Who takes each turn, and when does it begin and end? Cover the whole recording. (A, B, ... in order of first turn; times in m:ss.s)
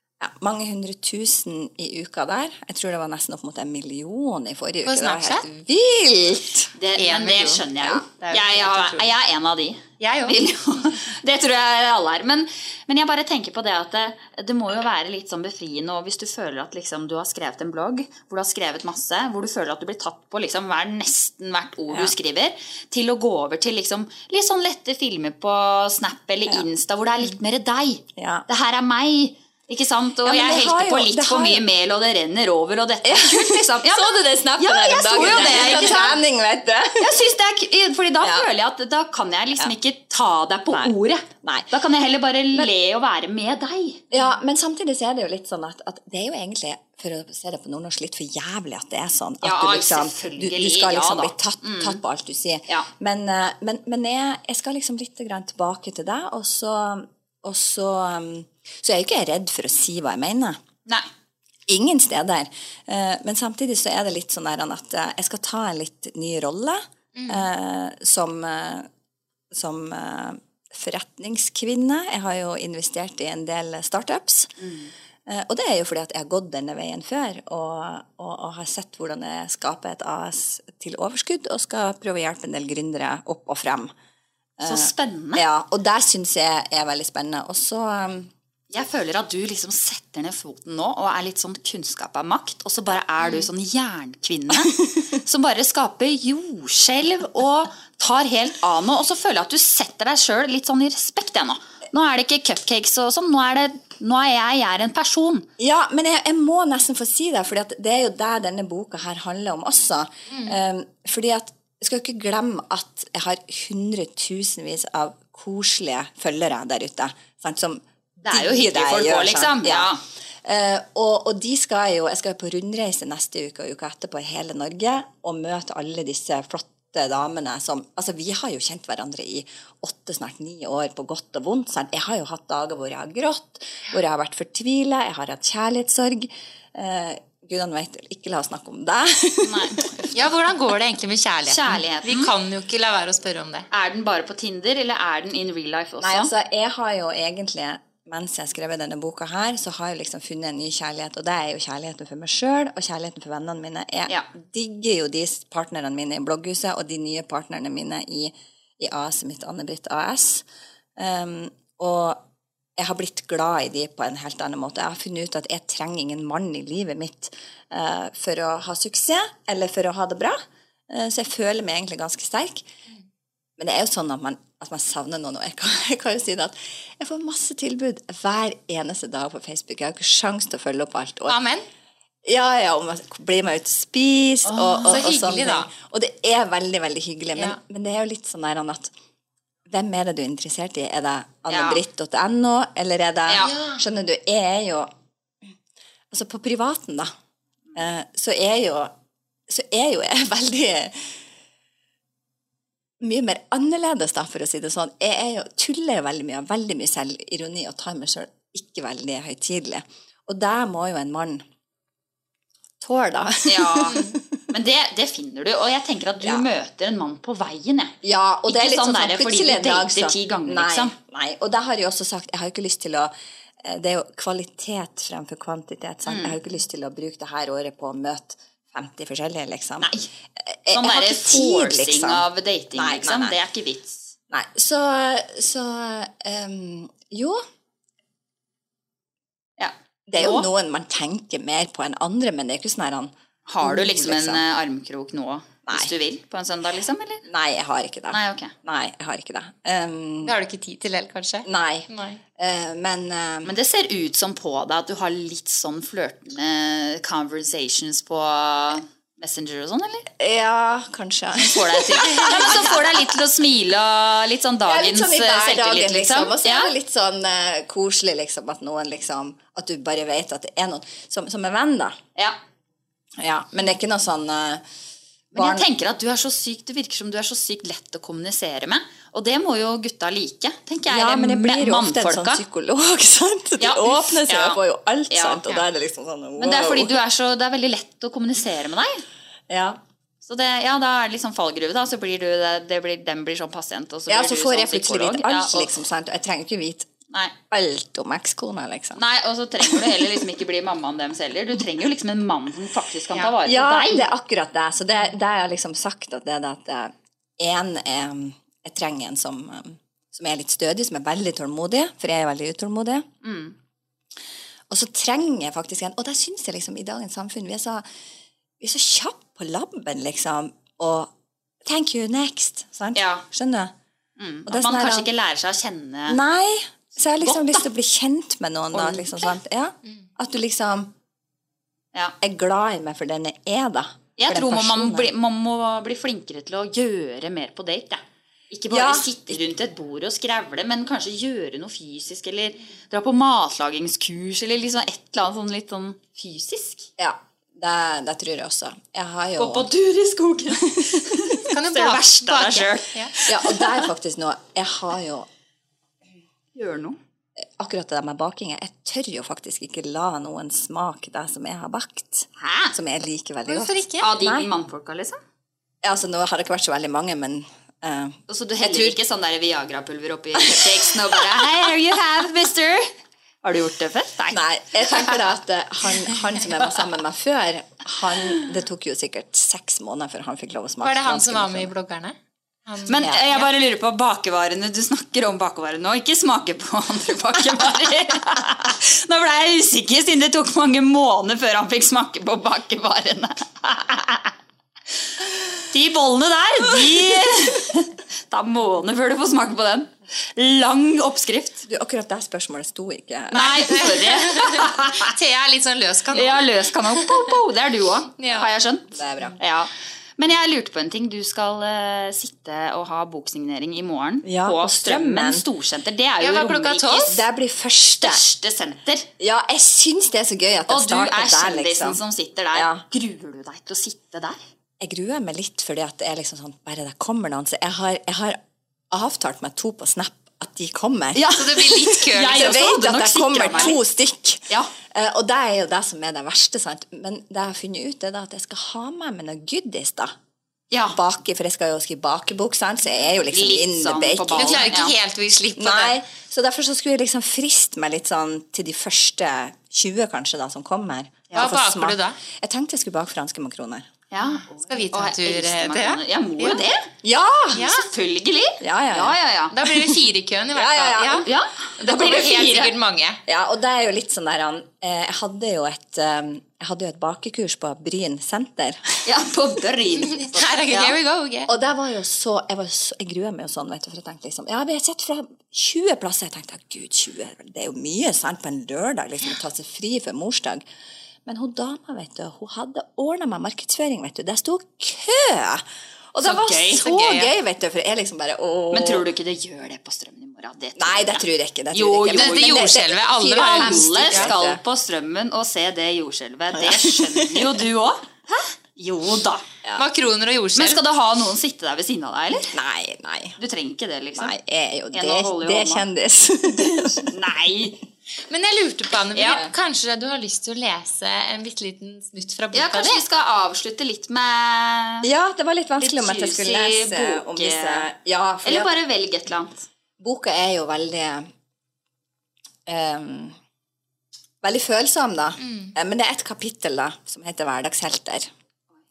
0:00.2-0:06.7 A
0:04.9-0:05.4 B
0:06.8-0:36.2 C
0:07.0-0:09.1 B
0:10.0-0:10.4 B
0:21.9-0:22.2 A
0:28.2-0:28.4 A
0:30.2-0:31.6 A
0:33.0-0:37.2 A
0:37.0-0:44.0 C
0:38.2-0:38.5 A
0:40.7-0:41.7 A
0:44.1-1:00.6 A
0:49.4-0:52.0 C
1:01.7-1:08.9 A
1:07.2-1:07.5 B
1:09.5-1:14.6 A
1:14.6-1:14.9 C
1:15.3-1:23.9 A
1:24.6-1:28.3 A
1:24.6-1:25.4 C
1:28.7-1:45.5 C
1:45.6-1:59.9 A
1:58.2-2:00.0 C
2:00.4-2:19.8 A
2:19.4-2:20.2 C
2:20.1-2:23.7 B
2:21.4-2:22.3 C
2:23.7-2:26.3 C
2:26.0-2:40.5 A
2:41.0-2:42.2 A
2:42.8-2:52.7 A
2:53.6-3:01.4 A
3:01.3-3:01.7 B
3:02.3-3:08.9 A
3:04.5-3:05.0 C
3:04.9-3:05.7 B
3:09.7-3:14.9 A
3:11.5-3:11.8 C
3:13.3-3:13.5 C
3:13.4-3:13.8 B
3:16.1-3:17.1 A
3:17.8-3:18.9 A
3:19.5-3:21.1 A
3:23.0-3:31.4 A
3:32.8-3:34.4 A
3:33.5-3:38.0 C
3:38.0-3:53.4 A
3:38.5-3:40.9 C
3:46.1-3:46.4 C
3:50.7-3:54.1 C
3:54.3-3:57.4 A
3:59.6-4:00.5 C
4:00.1-4:04.4 A
4:03.5-4:07.2 C
4:05.7-4:05.9 A
4:07.2-4:10.4 A
4:08.1-4:08.5 C
4:10.2-4:12.2 B
4:11.4-4:13.5 A
4:13.4-4:20.1 C
4:20.2-4:23.1 A
4:21.4-4:26.7 C
4:24.6-4:32.0 A
4:33.2-4:34.6 A
4:35.3-4:35.7 A
4:35.3-4:42.4 C
4:40.8-4:47.0 A
4:43.6-4:45.4 C
4:46.4-4:49.0 C
4:49.5-4:49.8 A
4:50.2-4:55.7 C
4:54.1-4:56.9 A
4:57.5-4:59.0 A
4:59.0-5:04.1 C
5:03.4-5:13.1 A
5:13.2-5:13.6 C
5:14.7-5:17.8 A
5:18.6-5:21.1 A
5:21.6-5:23.7 A
5:23.0-5:23.2 C
5:24.2-5:26.2 C
5:24.5-5:25.1 A
5:26.1-5:30.9 A
5:27.2-5:27.6 C
5:28.7-5:29.4 C
5:32.2-5:35.1 A
5:34.2-5:46.9 C
5:38.7-5:39.4 A
5:47.0-5:49.7 A
5:49.4-5:53.9 C
5:50.6-5:51.4 A
5:51.5-5:53.1 B
5:53.3-5:55.3 A
5:56.6-5:57.0 C
5:57.4-6:04.5 A
6:02.4-6:02.8 C
6:03.5-6:04.1 B
6:04.0-6:05.2 C
6:05.8-6:09.0 A
6:08.3-6:12.9 C
6:10.4-6:11.4 A
6:13.4-6:15.1 C
6:14.3-6:21.7 A
6:20.8-6:22.2 B
6:22.7-6:23.5 B
6:22.9-6:34.3 C
6:35.7-6:41.6 C
6:41.7-6:44.0 A
6:43.3-6:45.1 C
6:43.8-6:46.4 B
6:46.1-6:57.2 C
6:48.2-6:48.5 B
6:48.9-6:49.4 A
6:54.2-6:55.4 A
6:56.2-6:57.2 B
6:57.0-6:58.2 A
6:58.0-6:59.1 C
6:59.2-7:02.0 A
7:00.7-7:04.4 C
7:02.5-7:02.8 A
7:04.8-7:08.4 A
7:08.9-7:20.2 A
7:11.2-7:13.8 C
7:11.3-7:12.6 B
7:20.9-7:24.8 A
7:23.3-7:25.0 C
7:24.4-7:26.0 B
7:25.6-7:33.9 A
7:31.4-7:32.2 B
7:34.1-7:36.8 C
7:34.2-7:36.7 B
7:37.0-7:37.7 A
7:37.6-7:37.9 B
7:37.6-7:39.6 C
7:38.6-7:39.2 A
7:39.5-7:43.2 B
7:40.5-7:41.3 A
7:41.2-7:42.7 C
7:43.3-7:49.0 A
7:49.1-7:51.0 C
7:50.3-7:51.5 B
7:51.5-8:00.6 A
8:01.3-8:09.1 A
8:06.2-8:06.8 C
8:06.7-8:07.3 B
8:08.7-8:12.8 C
8:10.8-8:14.6 A
8:12.1-8:14.3 B
8:13.4-8:19.4 C
8:16.5-8:17.5 A
8:19.8-8:20.8 B
8:20.6-8:22.6 C
8:22.5-8:23.4 A
8:23.4-8:24.3 C
8:24.2-8:27.1 A
8:24.9-8:25.8 C
8:27.1-8:27.8 C
8:28.3-8:33.0 B
8:29.2-8:29.5 A
8:32.5-8:35.1 C
8:35.0-8:38.7 A
8:35.8-8:37.9 C
8:38.4-8:39.5 C
8:40.0-8:41.3 A
8:42.7-8:43.4 A
8:44.4-8:48.3 A
8:45.4-8:45.7 B